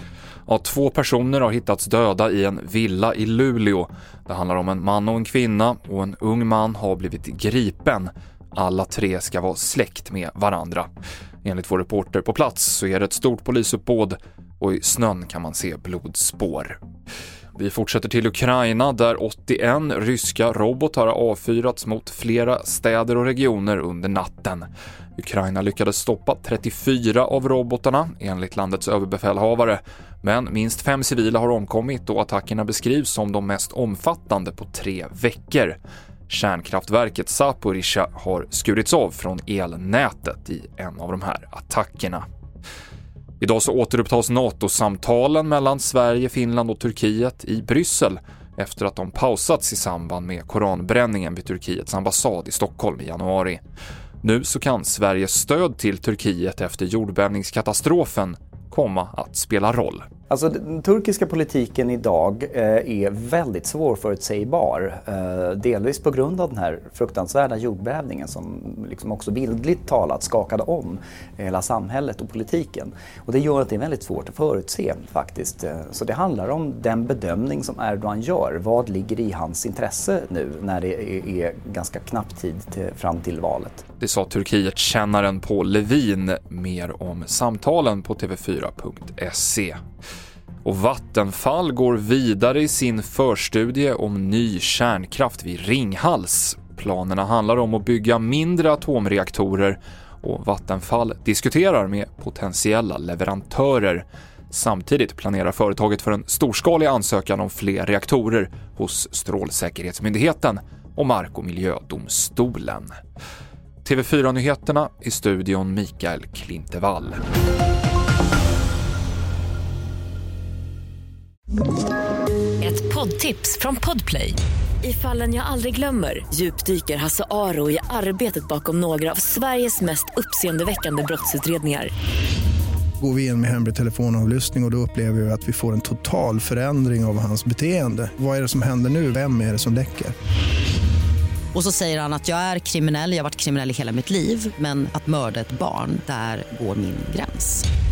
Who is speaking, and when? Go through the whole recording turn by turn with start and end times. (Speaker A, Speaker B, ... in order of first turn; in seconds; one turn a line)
Speaker A: 0.5-10.9
Speaker A: 11.4-16.8
Speaker A: 17.6-42.2
Speaker A: 43.4-53.6
Speaker A: 54.2-60.0
Speaker B: 60.3-83.9
Speaker A: 84.0-89.8
Speaker A: 90.6-112.9
Speaker A: 113.8-117.2
Speaker C: 122.6-131.9
Speaker D: 133.0-140.1
Speaker E: 141.5-147.7